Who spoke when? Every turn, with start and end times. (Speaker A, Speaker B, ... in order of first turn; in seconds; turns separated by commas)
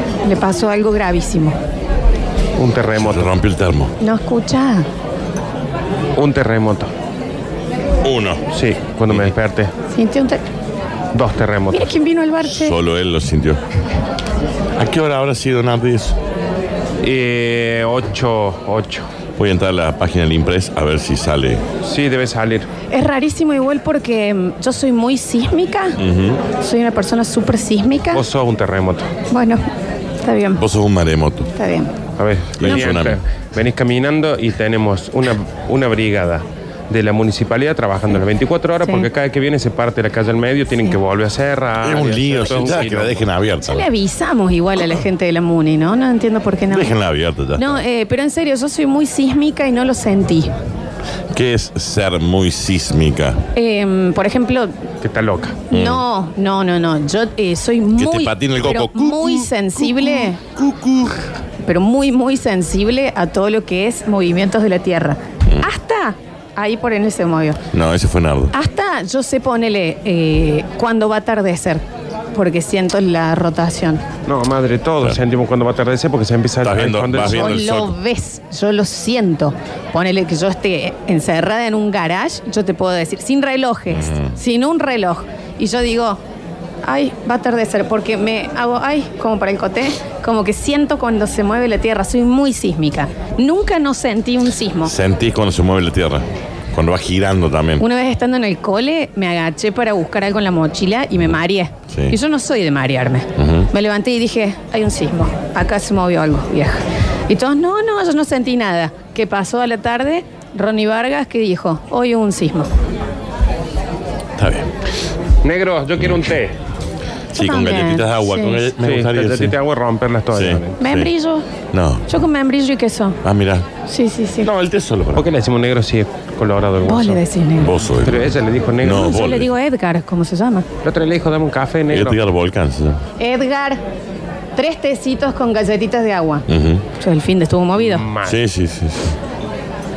Speaker A: 0.2-1.6, Speaker B: 2.6-3.3, Speaker C: 3.0-3.9, Speaker A: 4.0-4.9, Speaker B: 6.2-6.9, Speaker C: 8.0-8.4, Speaker B: 8.5-9.7, Speaker C: 9.1-9.3, Speaker A: 9.9-10.4, Speaker B: 11.1-11.9, Speaker A: 11.7-12.8, Speaker C: 12.4-13.6, Speaker C: 14.8-16.2, Speaker B: 17.0-19.1, Speaker C: 19.4-21.6, Speaker B: 21.8-22.7, Speaker A: 22.9-26.0, Speaker C: 26.0-26.4, Speaker A: 26.6-28.2, Speaker B: 28.1-29.1, Speaker A: 29.3-29.6, Speaker A: 30.2-30.6, Speaker C: 30.6-31.5, Speaker A: 31.6-31.9, Speaker B: 32.2-43.2, Speaker C: 32.6-33.2, Speaker A: 32.6-32.9, Speaker A: 38.8-39.1, Speaker C: 41.8-43.9, Speaker A: 43.6-46.9, Speaker C: 46.7-47.8, Speaker A: 47.5-50.5, Speaker C: 51.3-53.4, Speaker A: 53.5-54.7, Speaker B: 55.0-55.6, Speaker A: 55.7-60.4, Speaker C: 55.7-56.0, Speaker C: 58.0-61.2, Speaker A: 61.6-67.6, Speaker C: 67.7-68.5, Speaker A: 68.5-74.0, Speaker B: 74.3-77.6, Speaker C: 76.6-78.0, Speaker A: 77.2-86.2, Speaker C: 83.9-84.3, Speaker A: 86.8-94.9, Speaker C: 94.8-97.8, Speaker A: 97.8-112.7, Speaker C: 101.9-102.2, Speaker C: 103.3-103.7, Speaker C: 114.4-114.7, Speaker B: 115.4-116.6, Speaker C: 117.3-119.5, Speaker A: 117.4-118.7, Speaker B: 118.8-120.8, Speaker C: 120.3-121.1, Speaker A: 120.8-121.5, Speaker C: 121.7-122.1, Speaker A: 122.1-123.2, Speaker C: 123.2-123.7, Speaker A: 123.9-124.5, Speaker C: 124.4-125.2, Speaker B: 125.1-127.2, Speaker A: 126.8-127.7, Speaker C: 127.6-129.5, Speaker B: 128.0-129.2, Speaker A: 128.9-130.7, Speaker B: 130.8-132.2, Speaker C: 131.9-133.0, Speaker A: 133.2-133.8, Speaker A: 134.6-136.4, Speaker C: 136.5-136.8, Speaker A: 137.0-138.0, Speaker B: 137.8-138.4, Speaker C: 138.2-139.2